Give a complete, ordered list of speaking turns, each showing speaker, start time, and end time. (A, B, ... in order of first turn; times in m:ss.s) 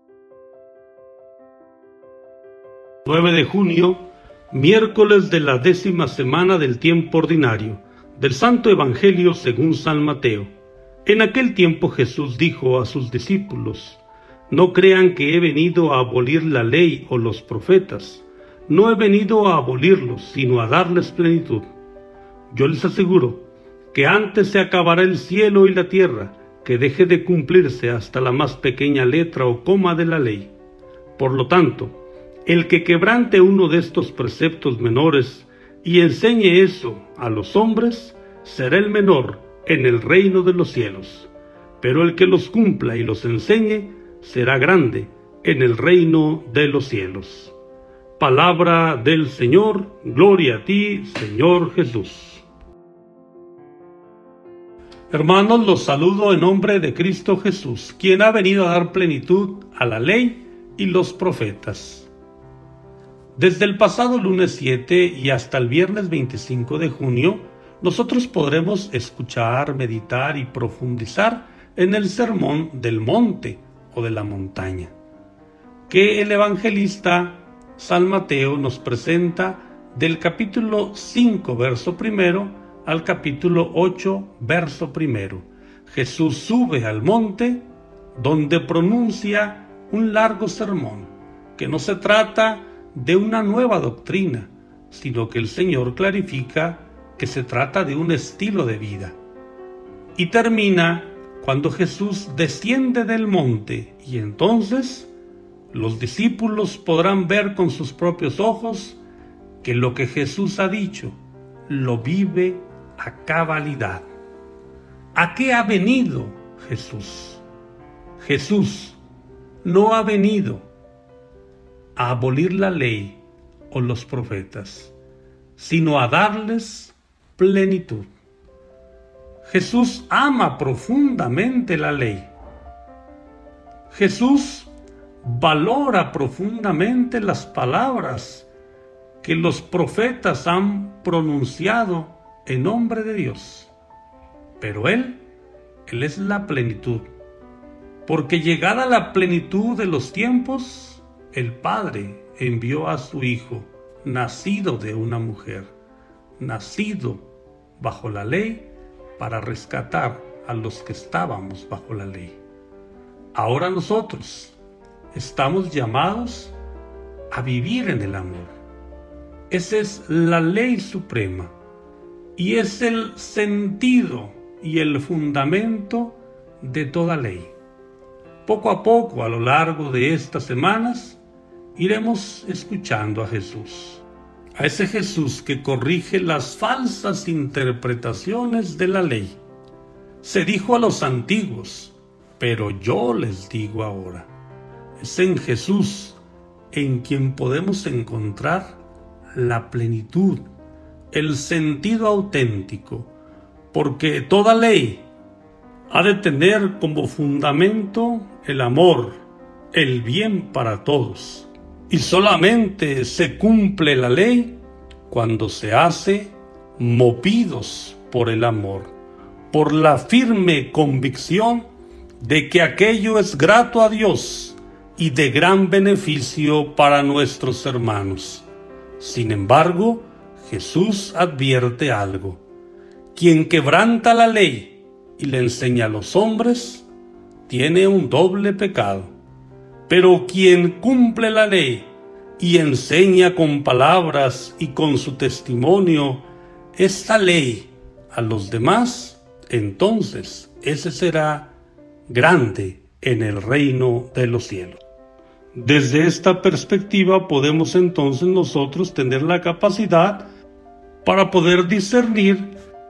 0:03.0-0:10.5 A
0:11.0-0:21.7 A
0:22.5-0:30.5 A
0:31.2-0:31.9 A
0:32.4-0:47.5 A
0:48.2-0:52.4 A
0:55.1-1:02.1 A
1:03.3-1:14.9 A
1:15.9-1:39.2 A
1:40.2-1:45.1 A
1:45.7-1:49.0 A
1:49.6-1:54.0 A
1:55.1-1:57.4 A
1:58.2-1:59.0 A
1:59.6-2:00.7 A
2:02.0-2:04.9 A
2:05.6-2:08.1 A
2:09.4-2:12.3 A
2:13.9-2:14.7 A
2:15.2-2:18.5 A
2:19.2-2:23.7 A
2:24.6-2:25.2 A
2:25.9-2:27.1 A
2:28.0-2:35.7 A
2:36.4-2:37.2 A
2:37.8-2:42.4 A
2:43.3-2:44.6 A
2:45.1-2:46.6 A
2:47.3-2:48.6 A
2:49.5-2:51.5 A
2:52.4-2:57.5 A
2:58.4-3:01.2 A
3:01.7-3:04.0 A
3:04.6-3:09.4 A
3:10.2-3:14.3 A
3:15.0-3:16.2 A
3:16.7-3:18.8 A
3:19.3-3:20.4 A
3:21.1-3:23.1 A
3:23.7-3:25.1 A
3:25.9-3:34.6 A
3:35.1-3:38.9 A
3:39.5-3:41.7 A
3:42.2-3:48.5 A
3:49.0-3:52.4 A
3:53.1-3:56.9 A
3:57.5-3:59.1 A
3:59.9-4:11.5 A
4:12.1-4:14.8 A
4:15.5-4:20.3 A
4:21.0-4:22.5 A